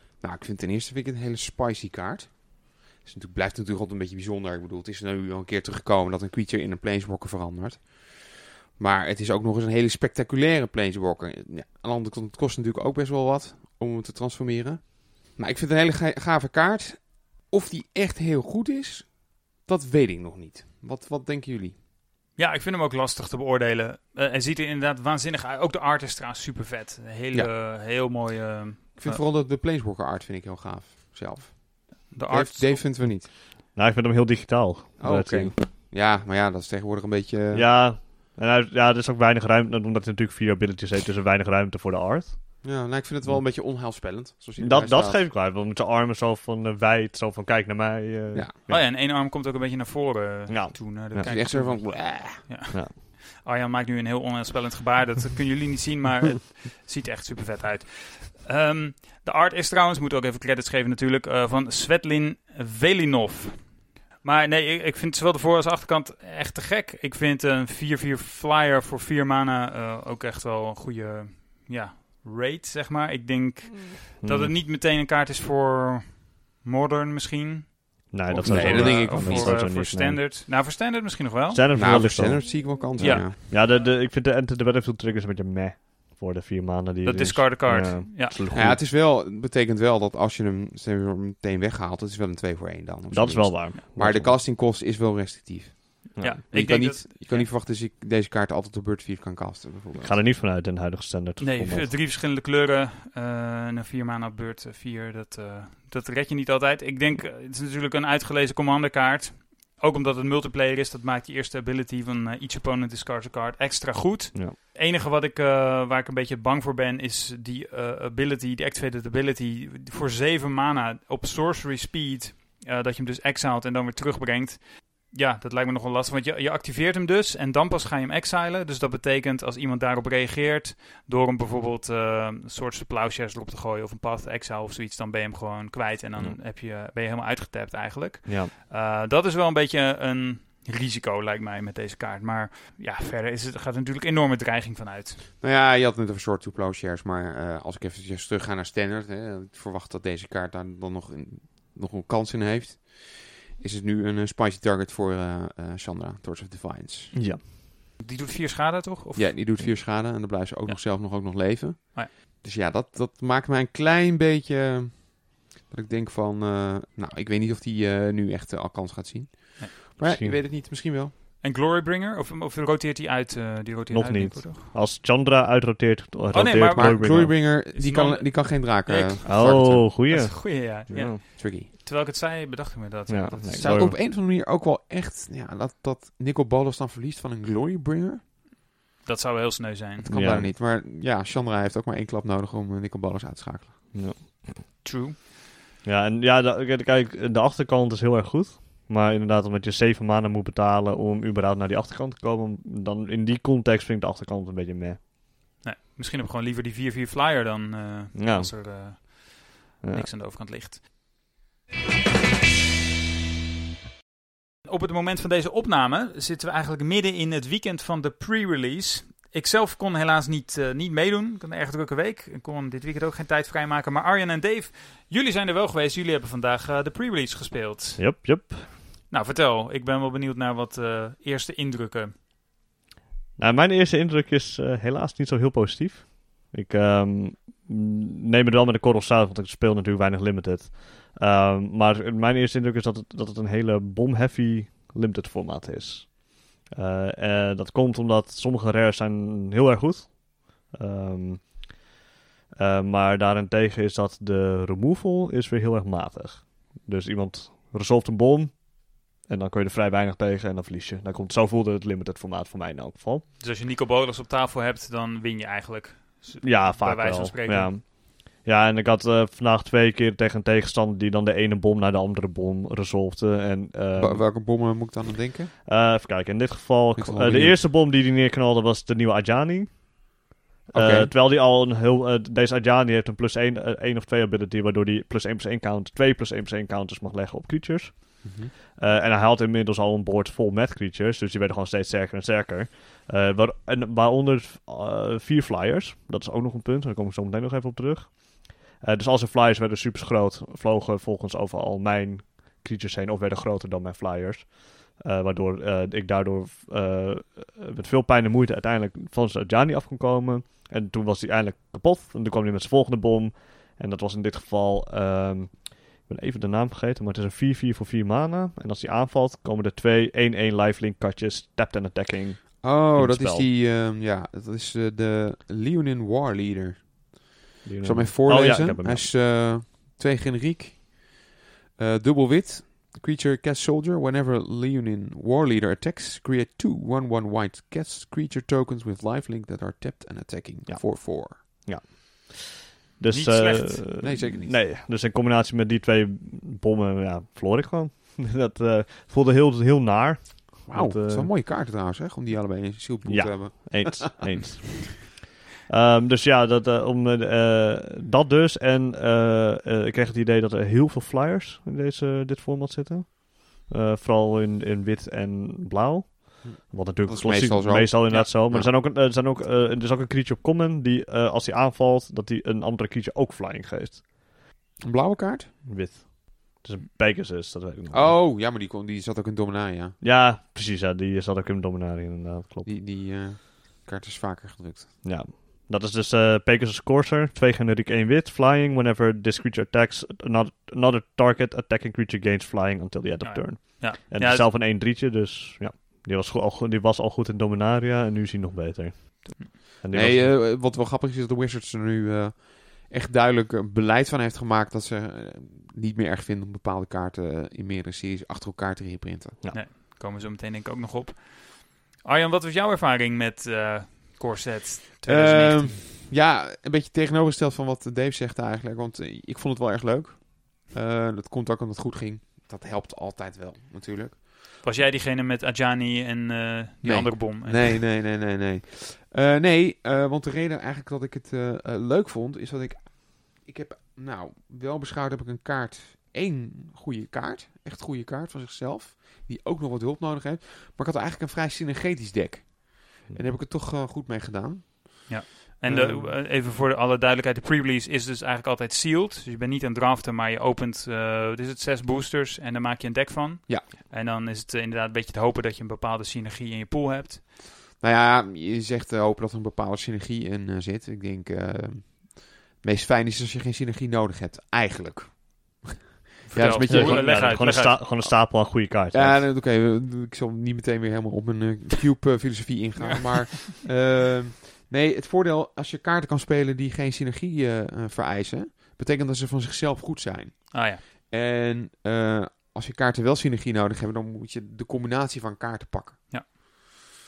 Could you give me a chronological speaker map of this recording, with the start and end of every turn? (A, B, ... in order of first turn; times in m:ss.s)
0:00.2-0:21.8 A
0:22.4-0:29.2 B
0:29.0-0:33.3 A
0:32.1-0:32.9 B
0:33.0-0:35.6 C
0:35.0-0:37.7 A
0:37.5-0:43.4 C
0:42.6-0:45.2 A
0:44.6-0:48.9 C
0:48.7-1:21.6 B
0:50.5-0:51.3 C
0:51.3-0:52.5 A
1:14.2-1:14.5 C
1:18.1-1:20.2 C
1:18.3-1:19.6 A
1:21.5-1:28.8 C
1:21.7-1:23.4 A
1:23.0-1:23.3 B
1:27.0-1:28.4 B
1:28.5-1:40.3 A
1:33.1-1:34.4 C
1:36.2-1:36.4 C
1:36.2-1:37.5 B
1:40.0-1:41.9 C
1:41.4-2:25.2 B
2:18.2-2:18.5 C
2:25.4-2:37.1 A
2:37.1-2:37.4 C
2:38.0-2:40.0 B
2:39.2-2:51.1 A
2:50.0-2:50.4 C
2:51.4-2:54.7 B
2:53.9-2:57.4 C
2:56.3-3:03.9 B
2:56.7-2:59.9 A
2:59.2-3:01.2 C
3:01.4-3:01.7 A
3:03.1-3:04.0 C
3:03.5-3:08.2 A
3:09.0-3:10.1 B
3:10.0-3:13.9 A
3:10.1-3:10.5 C
3:13.9-3:14.7 C
3:14.8-3:15.2 B
3:15.8-3:25.0 C
3:25.6-3:30.8 B
3:28.1-3:29.1 C
3:29.8-3:30.1 C
3:34.6-3:48.5 B
3:48.0-3:48.7 C
3:49.1-3:52.1 B
3:53.4-4:11.8 C
4:12.6-4:23.2 C
4:23.4-4:27.7 B
4:26.4-4:34.3 C
4:34.0-4:35.5 A
4:35.6-4:40.1 C
4:37.0-4:37.6 A
4:40.6-5:23.5 C
4:40.7-4:41.1 A
4:48.2-4:48.5 A
5:22.6-5:31.2 A
5:27.6-5:29.1 C
5:31.8-5:41.4 A
5:40.7-5:51.3 C
5:43.1-5:44.0 B
5:44.0-5:44.6 A
5:50.7-5:54.4 A
5:53.0-6:14.3 C
6:06.4-6:08.7 A
6:14.8-6:15.5 A
6:15.6-6:18.2 C
6:17.9-6:20.0 A
6:20.0-6:22.8 C
6:22.6-6:25.0 A
6:25.0-6:40.4 C
6:33.2-6:34.5 B
6:39.9-6:49.4 A
6:49.5-6:55.8 B
6:55.0-7:04.2 A
7:04.6-7:07.8 B
7:06.8-7:26.1 A
7:25.1-7:37.2 B
7:37.8-7:47.6 A
7:46.2-7:48.1 B
7:46.6-7:49.3 C
7:48.2-8:06.5 A
7:52.8-7:53.5 B
8:00.5-8:00.8 B